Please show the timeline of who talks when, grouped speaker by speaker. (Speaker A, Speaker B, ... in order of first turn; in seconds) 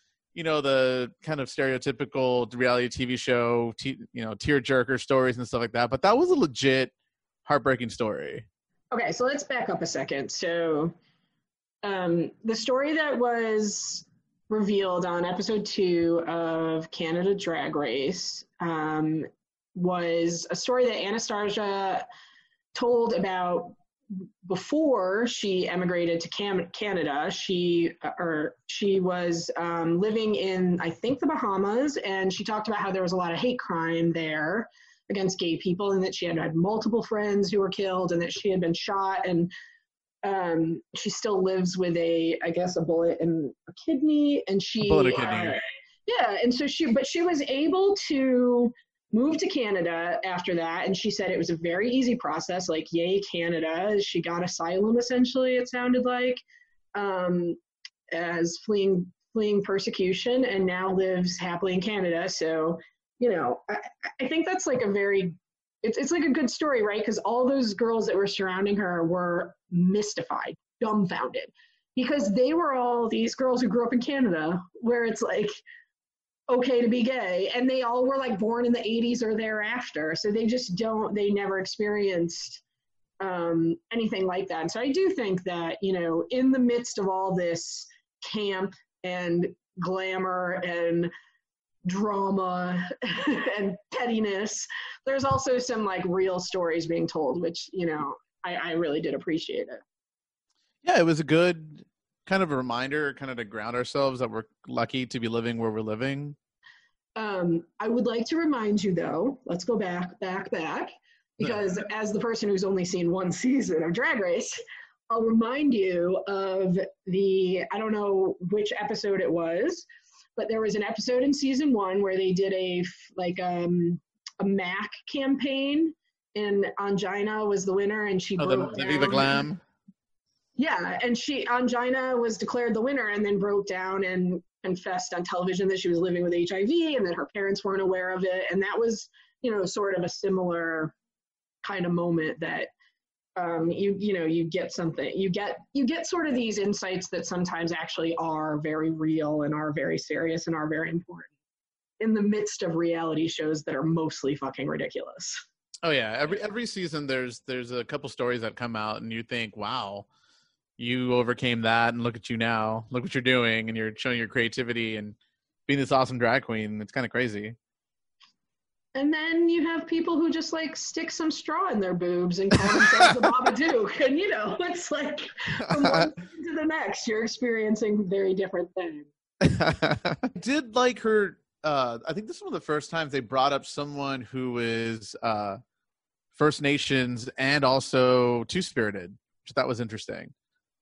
Speaker A: 0.3-6.9, 7.5-8.4, 44.8-45.6, 100.8-106.4, 128.4-129.6, 155.8-160.1, 160.8-165.2, 165.7-167.6, 172.7-173.0, 175.7-176.1, 179.4-185.6, 186.3-190.3
Speaker B: 8.9-10.9, 11.8-22.0, 22.8-23.8, 24.5-39.5, 40.2-56.4, 57.0-57.6, 58.1-75.6, 76.5-82.6, 83.2-91.1, 91.8-99.8, 107.2-114.6, 115.1-119.9, 120.4-129.5, 130.6-140.9, 141.6-142.7, 143.4-151.3, 152.0-155.4, 168.9-179.1